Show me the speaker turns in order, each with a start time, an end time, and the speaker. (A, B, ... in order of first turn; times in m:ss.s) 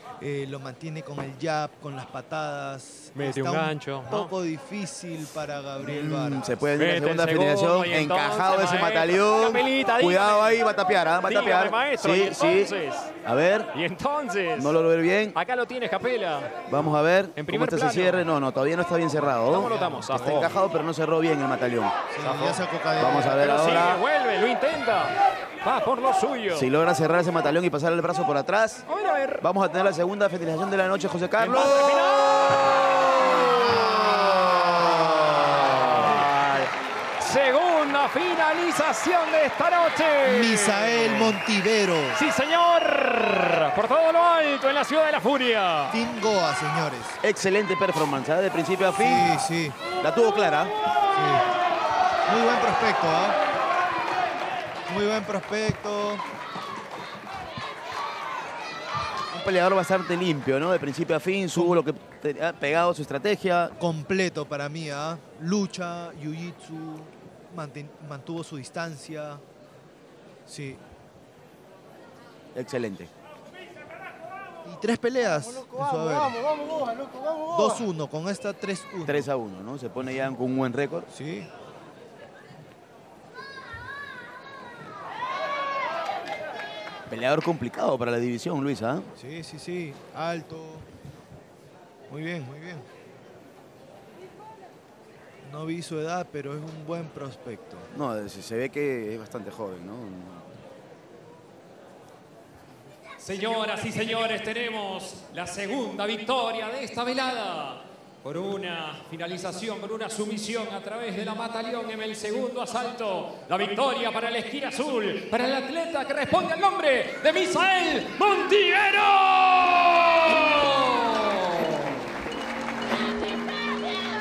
0:00.2-0:06.7 A
0:03.1-0:04.3 B
0:05.8-0:12.7 C
0:06.8-0:10.6 B
0:11.3-0:13.1 B
0:13.2-0:13.7 C
0:13.7-0:14.8 B
0:14.6-0:15.4 C
0:15.3-0:16.5 B
0:16.7-0:22.0 C
0:17.4-0:18.3 B
0:19.4-0:20.6 B
0:19.5-0:20.4 A
0:22.1-0:23.4 A
0:22.2-0:22.6 B
0:23.0-0:24.0 C
0:23.3-0:26.7 B
0:26.5-0:28.9 C
0:28.9-0:29.4 B
0:29.4-0:32.0 C
0:31.4-0:41.4 B
0:33.1-0:36.3 A
0:40.2-0:42.2 A
0:42.1-0:46.0 B
0:45.9-0:47.2 A
0:47.2-0:49.3 C
0:49.0-0:49.8 A
0:49.9-0:50.7 C
0:51.1-0:51.4 A
0:52.3-0:53.4 A
0:54.9-0:56.2 A
0:59.3-1:03.7 C
1:03.8-1:09.4 A
1:10.5-1:10.8 A
1:12.5-1:13.1 C
1:14.6-1:16.3 A
1:17.5-1:19.3 A
1:19.0-1:21.1 C
1:21.1-1:21.5 A
1:27.1-1:29.1 C
1:29.2-1:30.9 A
1:32.1-1:32.8 A
1:35.4-1:37.9 A
1:37.9-1:40.5 C
1:43.2-2:02.0 B